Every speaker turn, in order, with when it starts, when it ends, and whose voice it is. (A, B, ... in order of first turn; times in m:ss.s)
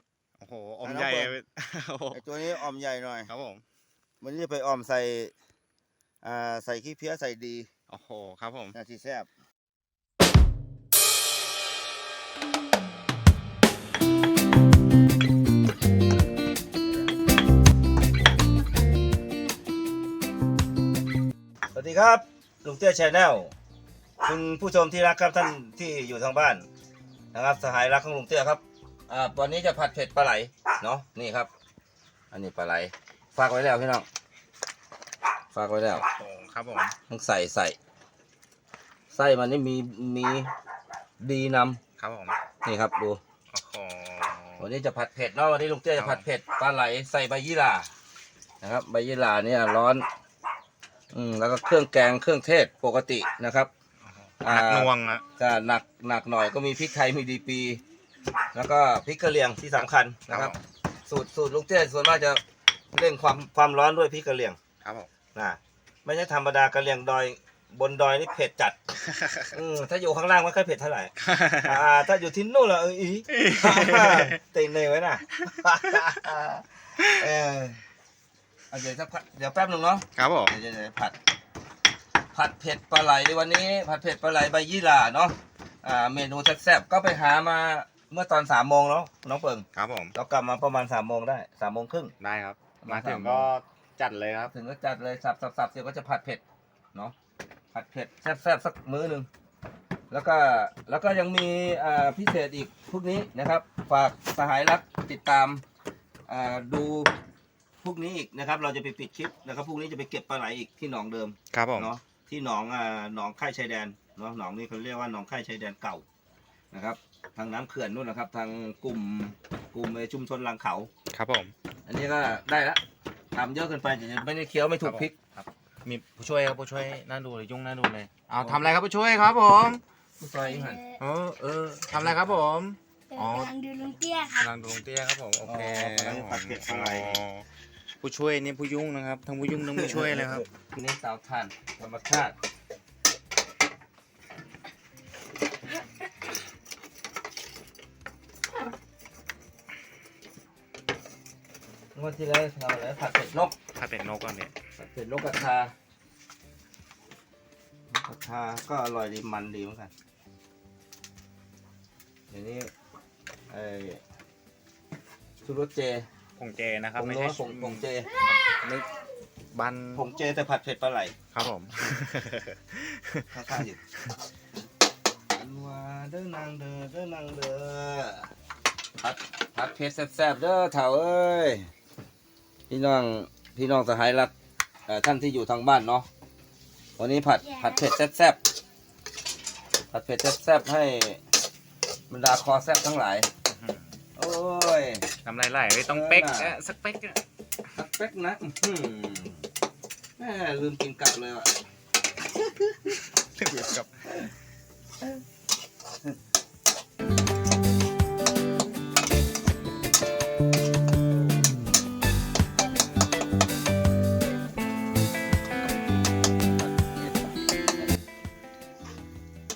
0:00.4-0:02.4 A
0:00.8-0:01.4 B
0:02.1-0:03.3 B
0:03.3-0:03.6 A
0:04.2-0:05.3 B
0:06.2-0:07.7 B
0:07.9-0:08.7 A
0:08.7-0:09.3 B
0:21.7-0:23.5 B
0:24.2-0:26.7 B
0:27.3-0:31.5 B
0:32.3-0:34.1 B
0:35.5-0:36.0 B
0:35.9-0:36.9 A
0:37.1-0:37.8 B
0:39.1-0:40.5 B
0:41.2-0:41.8 B
0:42.0-0:42.4 A
0:42.6-0:43.2 B
0:43.5-0:44.6 A
0:44.6-0:47.9 B
0:46.0-0:46.2 A
0:48.6-0:50.0 B
0:51.1-0:53.7 B
0:54.1-0:55.2 A
0:54.4-0:57.8 B
0:58.5-1:00.5 B
1:00.3-1:00.6 A
1:01.0-1:02.4 B
1:02.9-1:04.6 B
1:04.8-1:05.1 A
1:05.3-1:08.8 B
1:09.0-1:09.5 A
1:09.5-1:17.8 B
1:11.2-1:11.8 A
1:13.3-1:14.4 A
1:15.4-1:16.2 A
1:18.7-1:21.2 B
1:20.2-1:20.5 A
1:22.3-1:32.1 B
1:29.8-1:30.1 A
1:32.2-1:34.5 A
1:32.8-1:33.5 B
1:34.5-1:36.4 B
1:37.7-1:39.3 B
1:40.1-1:45.6 B
1:46.3-1:47.1 B
1:47.8-1:56.0 B
1:51.5-1:51.9 A
1:56.7-2:00.9 B
2:01.1-2:01.5 A
2:01.8-2:02.8 B
2:03.3-2:05.2 B
2:04.8-2:09.8 A
2:08.4-2:08.7 B
2:10.2-2:10.8 B
2:10.4-2:11.0 C
2:11.0-2:13.5 A
2:12.0-2:12.4 B
2:13.1-2:14.5 C
2:14.4-2:17.4 A
2:15.4-2:17.2 B
2:18.0-2:20.4 A
2:19.6-2:22.3 B
2:31.9-2:33.6 B
2:33.7-2:34.5 A
2:34.8-2:35.7 B
2:37.9-2:39.9 B
2:42.3-2:42.7 B
2:43.5-2:44.0 B
2:45.4-2:46.1 B
2:46.4-2:49.0 A
2:47.0-2:48.2 B
2:49.5-2:50.0 A
2:49.9-2:51.1 B
2:51.3-2:53.4 A
2:53.3-2:53.8 B
2:55.3-2:58.3 B
2:59.0-3:01.7 B
3:02.7-3:04.3 B
3:04.9-3:06.1 B
3:07.0-3:08.4 B
3:07.4-3:07.8 C
3:09.9-3:11.2 B
3:12.1-3:13.3 B
3:13.5-3:13.9 A
3:14.2-3:15.1 B
3:15.2-3:17.2 A
3:15.8-3:16.5 B
3:17.7-3:19.4 B
3:20.2-3:21.5 B
3:22.5-3:22.9 B
3:23.1-3:24.0 A
3:36.8-3:37.1 B